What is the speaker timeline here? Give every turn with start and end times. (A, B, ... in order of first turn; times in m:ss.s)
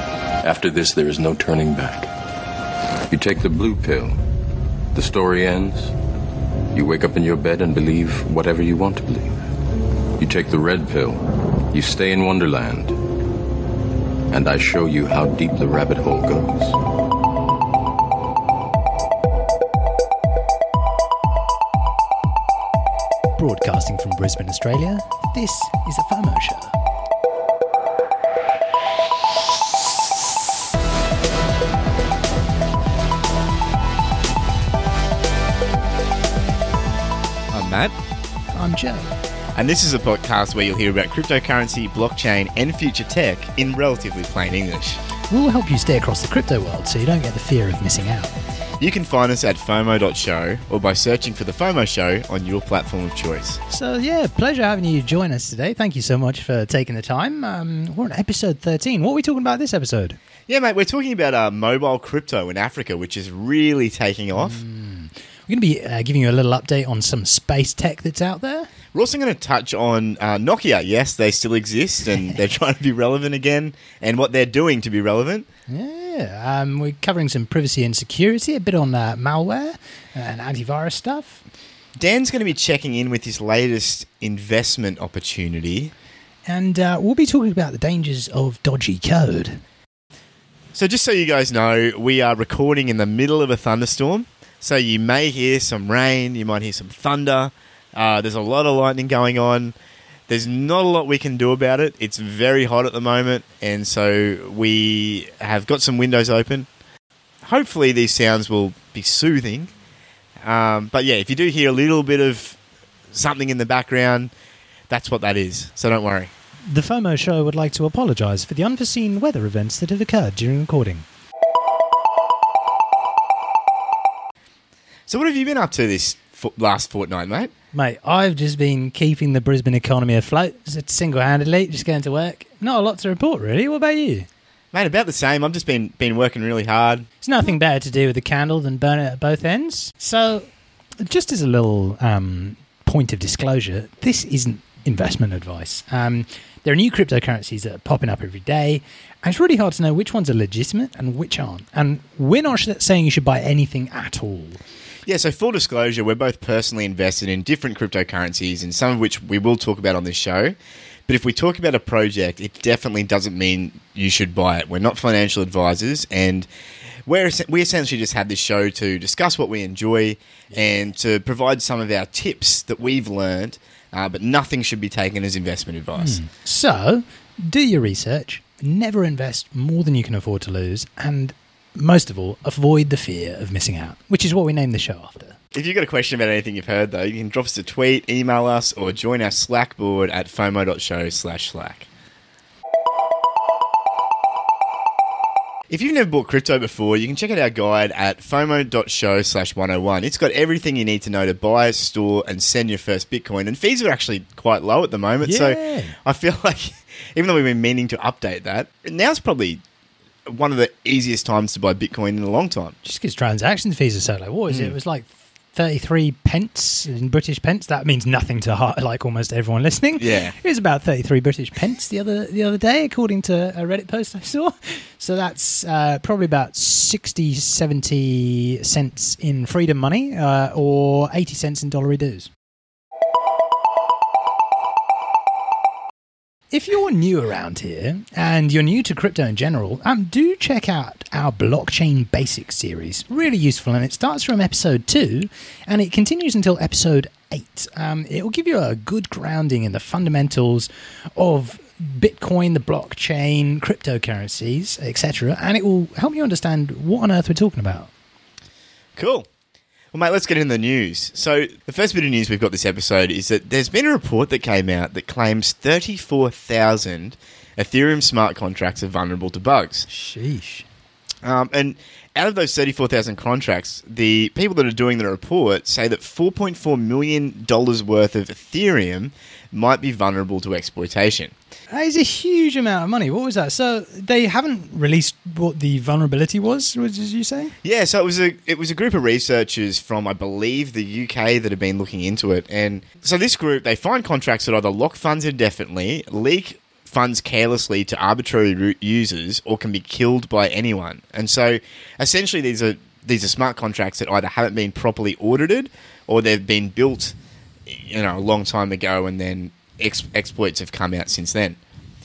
0:00.4-0:02.1 A
0:03.1-0:04.2 A
0:04.9-0:05.9 A
0:06.7-0:09.4 A
0:10.2-0:13.0 A
0:14.3-0:16.8 A
0:23.4-0:26.8 B
0:37.5-0:38.0 C
0:38.6-0:39.1 B
0:39.6-0:45.0 C
0:45.3-0:48.3 B
0:48.8-0:53.6 C
0:53.7-1:00.2 B
1:00.5-1:04.6 C
1:04.4-1:08.7 B
1:08.9-1:15.5 C
1:15.7-1:21.4 B
1:22.0-1:25.9 C
1:26.5-1:29.6 B
1:30.7-1:39.8 C
1:40.3-1:46.7 C
1:47.4-1:49.7 C
1:50.4-1:52.6 C
1:53.1-1:54.3 C
1:54.9-1:56.3 C
1:56.7-2:01.0 B
2:05.1-2:07.5 C
2:07.7-2:14.3 B
2:14.7-2:17.1 C
2:17.2-2:20.5 B
2:21.0-2:34.6 B
2:35.1-2:40.6 C
2:41.1-2:46.5 C
2:47.1-2:56.2 C
2:56.0-3:05.4 B
3:05.5-3:11.9 C
3:15.7-3:29.6 C
3:25.2-3:26.0 B
3:30.3-3:32.8 C
3:32.8-3:52.3 B
3:34.5-3:34.7 C
3:40.0-3:40.4 C
3:56.5-4:17.9 B
4:19.0-4:19.3 C
4:19.9-4:29.9 C
4:29.9-4:30.6 B
4:31.2-4:41.3 C
4:41.7-4:47.5 B
4:47.6-5:07.2 C
5:07.7-5:11.6 C